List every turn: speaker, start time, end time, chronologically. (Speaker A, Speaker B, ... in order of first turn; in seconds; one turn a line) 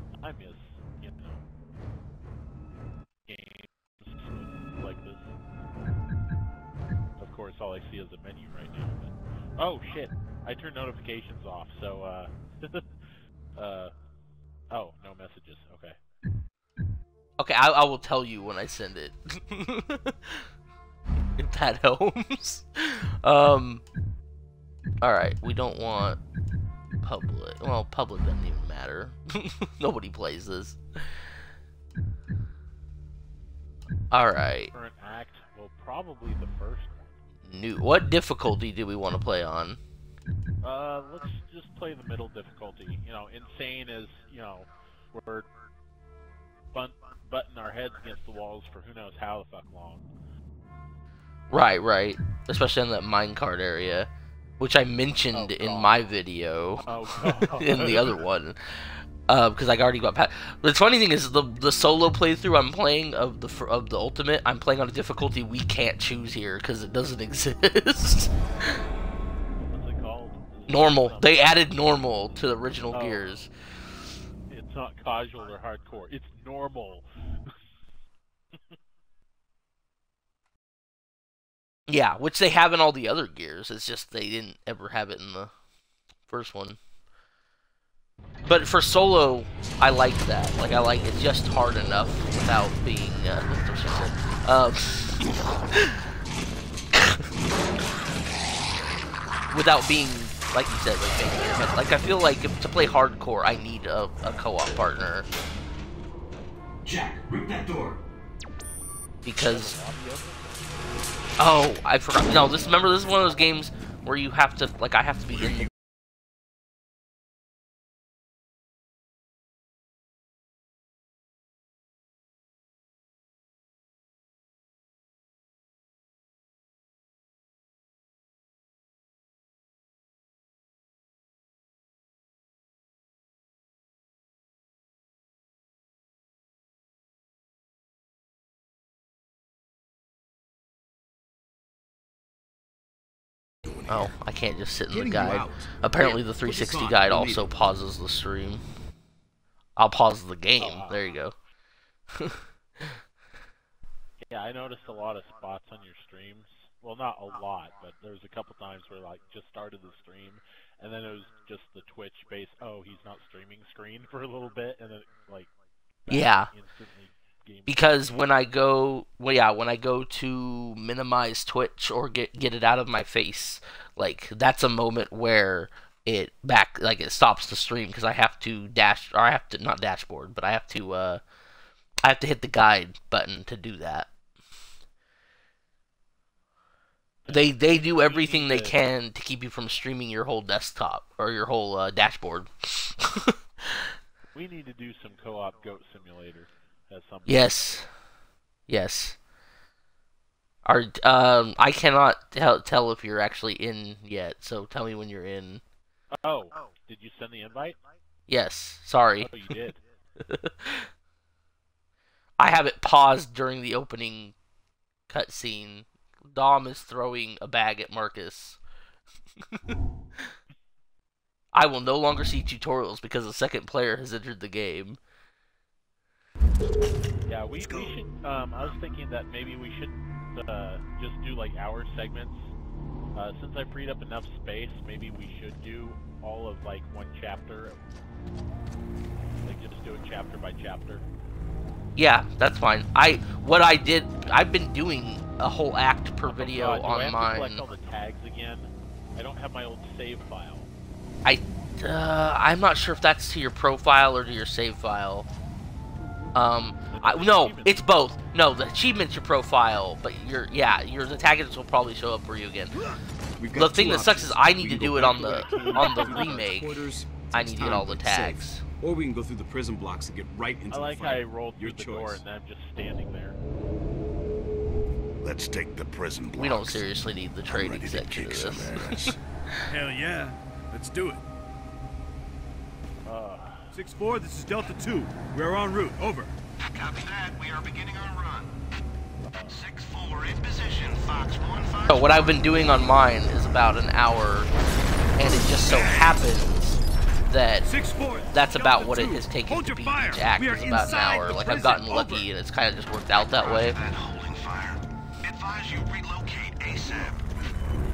Speaker A: 0.2-1.4
Speaker A: 3.3-5.3
Speaker A: 7.2-12.9
Speaker A: 13.6-13.9
Speaker A: 14.7-16.0
Speaker B: 17.4-20.4
Speaker B: 21.4-23.8
Speaker B: 25.0-26.2
Speaker B: 27.0-31.1
Speaker B: 34.1-34.7
Speaker A: 34.7-37.2
Speaker B: 37.5-39.8
Speaker A: 40.6-45.5
Speaker A: 46.7-50.1
Speaker B: 51.5-54.1
Speaker B: 54.6-68.8
Speaker A: 55.3-56.1
Speaker A: 56.8-58.1
Speaker A: 69.6-72.0
Speaker B: 70.7-73.5
Speaker A: 72.9-73.2
Speaker A: 74.5-77.0
Speaker B: 81.9-85.5
Speaker B: 86.3-86.8
Speaker B: 88.5-96.0
Speaker B: 96.9-97.3
Speaker B: 99.5-105.3
Speaker C: 107.0-107.7
Speaker B: 109.2-109.8
Speaker A: 109.4-110.7
Speaker B: 111.4-115.7
Speaker D: 143.7-144.1
Speaker B: 143.9-148.6
Speaker C: 144.9-147.5
Speaker B: 149.8-151.3
Speaker A: 150.6-151.0
Speaker B: 152.2-153.0
Speaker A: 154.2-165.5
Speaker A: 166.1-167.9
Speaker B: 166.1-166.5
Speaker B: 167.7-181.2
Speaker B: 182.0-184.1
Speaker A: 187.3-188.8
Speaker B: 187.3-193.9
Speaker A: 194.3-197.5
Speaker B: 197.3-197.9
Speaker B: 198.7-199.2
Speaker B: 200.7-205.6
Speaker A: 206.2-207.8
Speaker B: 208.3-209.5
Speaker A: 209.2-209.8
Speaker B: 210.2-210.9
Speaker B: 212.4-214.3
Speaker B: 215.1-218.6
Speaker B: 221.5-225.0
Speaker A: 227.3-232.5
Speaker A: 233.2-237.8
Speaker A: 239.4-241.1
Speaker B: 242.0-247.6
Speaker A: 246.3-250.7
Speaker B: 251.2-255.3
Speaker B: 256.3-262.8
Speaker A: 256.9-257.9
Speaker C: 262.8-272.2
Speaker B: 263.5-268.6
Speaker A: 265.5-266.4
Speaker A: 270.7-273.4
Speaker D: 275.2-276.9
Speaker B: 276.4-279.1
Speaker D: 277.4-279.2
Speaker C: 279.7-281.2
Speaker A: 283.0-283.7
Speaker C: 283.7-286.3
Speaker E: 286.7-288.5
Speaker A: 289.2-289.6
Speaker E: 289.5-292.4
Speaker B: 291.9-294.5
Speaker B: 295.1-297.7
Speaker C: 297.6-302.3
Speaker A: 298.1-298.4
Speaker B: 298.3-303.8
Speaker E: 303.4-307.3